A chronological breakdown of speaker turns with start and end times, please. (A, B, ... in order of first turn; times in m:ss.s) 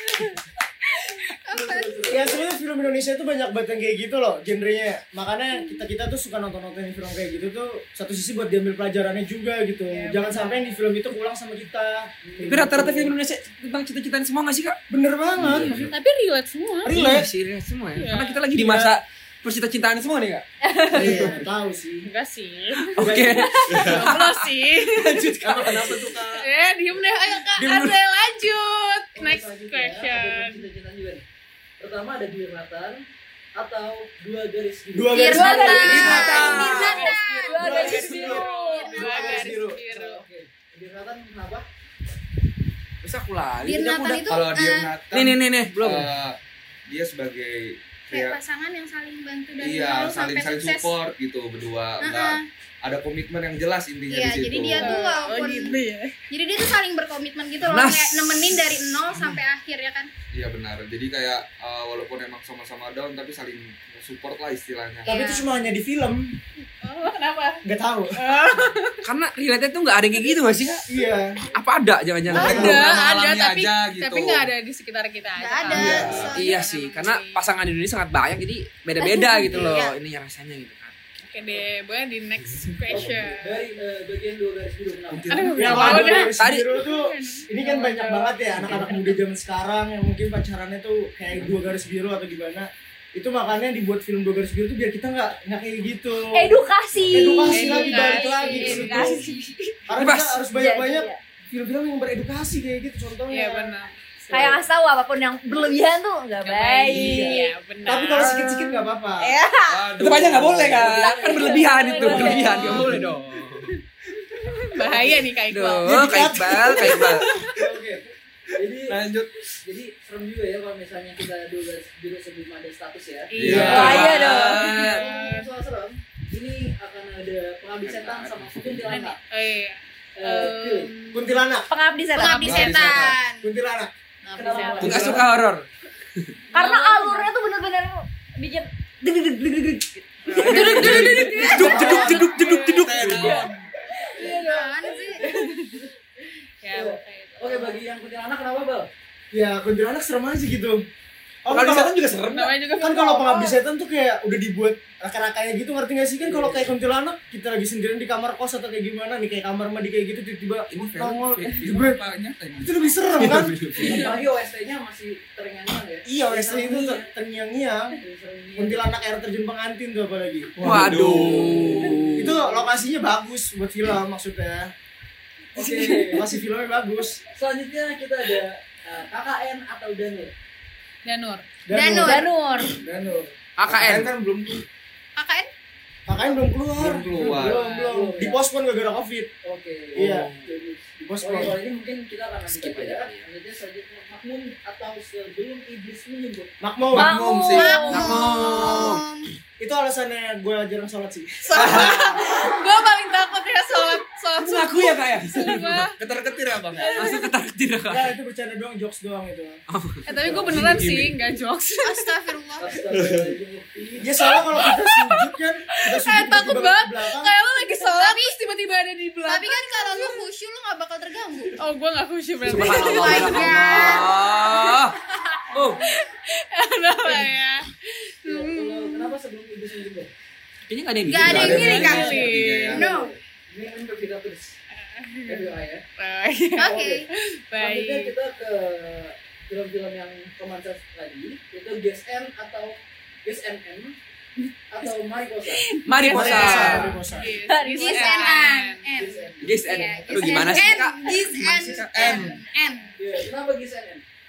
0:01.5-0:02.2 A
0:01.5-0:02.4 B
0:02.1-0:13.1 C
0:09.9-0:10.8 D
0:12.2-0:13.0 B
0:12.5-0:14.8 E
0:14.9-0:15.9 C
0:15.4-0:15.9 F
0:15.6-0:17.0 D
0:16.8-0:17.3 C
0:16.9-0:20.4 E
0:18.0-0:18.5 D
0:18.6-0:19.0 C
0:20.6-0:21.3 G
0:20.9-0:22.1 C
0:22.0-0:23.2 D
0:23.0-0:26.1 E
0:23.0-0:23.8 C
0:23.7-0:25.4 D
0:25.5-0:26.4 F
0:26.3-0:30.7 D
0:27.6-0:27.9 C
0:29.2-0:31.2 B
0:31.8-0:33.0 B
0:33.6-0:35.8 B
0:34.9-0:36.3 C
0:35.1-0:39.5 A
0:35.2-0:39.2 G
0:35.8-0:37.1 E
0:35.8-0:40.2 D
0:37.6-0:38.5 C
0:39.0-0:39.8 C
0:39.9-0:41.7 B
0:43.0-0:44.2 E
0:43.6-0:44.9 A
0:44.1-0:48.4 F
0:45.1-0:46.1 E
0:48.1-0:51.0 A
0:49.6-0:55.0 F
0:52.0-0:52.4 A
0:54.1-0:55.8 A
0:54.8-0:56.1 D
0:56.3-1:00.1 A
0:57.6-0:58.6 E
1:00.3-1:05.1 F
1:05.1-1:05.5 A
1:05.1-1:06.3 C
1:06.8-1:07.6 D
1:07.6-1:08.2 C
1:08.2-1:09.0 D
1:09.0-1:10.9 E
1:10.9-1:11.4 C
1:11.5-1:13.1 E
1:12.3-1:14.5 F
1:12.3-1:12.8 C
1:12.3-1:17.4 D
1:15.4-1:16.7 A
1:15.7-1:16.4 F
1:16.3-1:21.0 E
1:19.0-1:19.5 G
1:19.5-1:19.9 A
1:21.2-1:23.7 D
1:22.6-1:23.2 F
1:22.9-1:26.1 B
1:25.1-1:26.0 F
1:25.3-1:29.2 D
1:25.6-1:36.6 C
1:26.4-1:26.8 E
1:31.3-1:31.6 F
1:36.3-1:39.6 G
1:36.9-1:37.2 F
1:37.1-1:39.2 C
1:37.4-1:39.5 D
1:39.9-1:43.7 C
1:40.0-1:40.4 E
1:40.6-1:41.2 G
1:43.3-1:44.5 D
1:44.3-1:47.5 G
1:46.4-1:48.7 D
1:46.9-1:49.3 C
1:49.2-1:49.9 G
1:49.7-1:50.9 F
1:50.0-1:53.7 E
1:50.6-1:52.5 B
1:51.0-1:52.9 G
1:52.0-1:52.9 D
1:54.6-1:57.6 D
1:55.5-1:57.3 E
1:55.8-1:58.0 C
1:58.6-1:59.1 B
1:58.9-1:59.3 F
1:59.6-2:09.2 B
2:03.3-2:05.5 D
2:03.4-2:04.1 F
2:03.4-2:05.0 E
2:03.7-2:04.7 G
2:07.9-2:08.3 E
2:08.9-2:11.4 D
2:10.2-2:10.9 B
2:11.1-2:11.7 C
2:11.7-2:12.7 G
2:12.2-2:13.5 A
2:12.3-2:13.0 D
2:12.4-2:13.2 F
2:13.4-2:13.9 C
2:14.3-2:15.2 D
2:14.3-2:15.3 B
2:14.8-2:15.6 E
2:16.5-2:17.3 D
2:16.5-2:21.4 G
2:20.3-2:23.5 D
2:20.4-2:23.3 E
2:21.6-2:22.3 C
2:22.8-2:23.5 F
2:23.0-2:23.5 B
2:24.1-2:24.6 B
2:24.2-2:25.8 D
2:24.2-2:25.2 A
2:25.2-2:25.9 B
2:26.6-2:27.8 D
2:26.7-2:28.9 B
2:29.3-2:30.8 C
2:31.4-2:32.0 C
2:31.5-2:32.6 E
2:32.2-2:33.6 D
2:32.8-2:42.0 C
2:36.2-2:36.7 B
2:40.7-2:43.4 F
2:42.6-2:43.6 C
2:43.2-2:44.0 E
2:43.8-2:47.1 B
2:46.1-2:48.0 C
2:48.0-2:48.9 B
2:48.6-2:51.3 C
2:50.6-2:52.0 F
2:50.6-2:52.4 E
2:51.0-2:52.7 B
2:52.2-2:54.7 C
2:55.6-2:56.3 B
2:55.6-2:57.2 C
2:57.3-3:00.3 B
3:01.0-3:01.5 D
3:01.7-3:03.3 C
3:01.7-3:02.3 A
3:02.0-3:02.7 G
3:03.6-3:04.1 E
3:03.7-3:04.6 F
3:05.2-3:05.5 A
3:06.1-3:09.3 C
3:06.8-3:07.7 F
3:07.2-3:08.4 B
3:07.6-3:08.0 D
3:09.4-3:16.5 B
3:10.0-3:10.3 C
3:10.1-3:10.5 E
3:11.0-3:11.6 C
3:12.5-3:13.2 E
3:16.6-3:17.3 C
3:16.9-3:18.1 F
3:16.9-3:18.2 G
3:17.5-3:19.3 A
3:17.9-3:19.0 E
3:19.6-3:22.2 C
3:21.5-3:26.0 D
3:24.4-3:25.9 E
3:26.0-3:27.0 F
3:26.8-3:27.3 D
3:26.9-3:28.1 E
3:27.9-3:29.6 C
3:29.7-3:30.0 E
3:30.1-3:32.1 D
3:30.2-3:30.8 C
3:30.3-3:30.6 B
3:30.5-3:31.1 F
3:31.8-3:32.7 A
3:32.6-3:34.3 B
3:34.0-3:37.4 C
3:34.2-3:40.3 D
3:37.8-3:38.4 A
3:39.3-3:41.6 A
3:41.6-3:47.7 D
3:42.4-3:45.0 E
3:42.5-3:44.1 A
3:45.5-3:45.8 E
3:47.1-3:47.3 B
3:48.2-3:49.2 D
3:48.3-3:50.1 B
3:50.7-3:51.9 E
3:51.1-3:53.1 A
3:51.2-3:52.8 F
3:51.2-3:52.8 D
3:51.8-3:54.6 B
3:54.8-3:56.7 D
3:55.3-3:55.8 B
3:56.6-3:57.1 A
3:56.6-3:57.0 B
3:57.5-3:58.1 D
3:57.6-4:04.0 B
4:04.7-4:05.6 B
4:05.8-4:08.9 D
4:05.9-4:06.9 E
4:06.1-4:07.3 C
4:07.5-4:08.4 G
4:07.8-4:13.0 A
4:09.0-4:10.7 B
4:09.4-4:12.3 E
4:11.5-4:12.4 F
4:13.0-4:14.0 B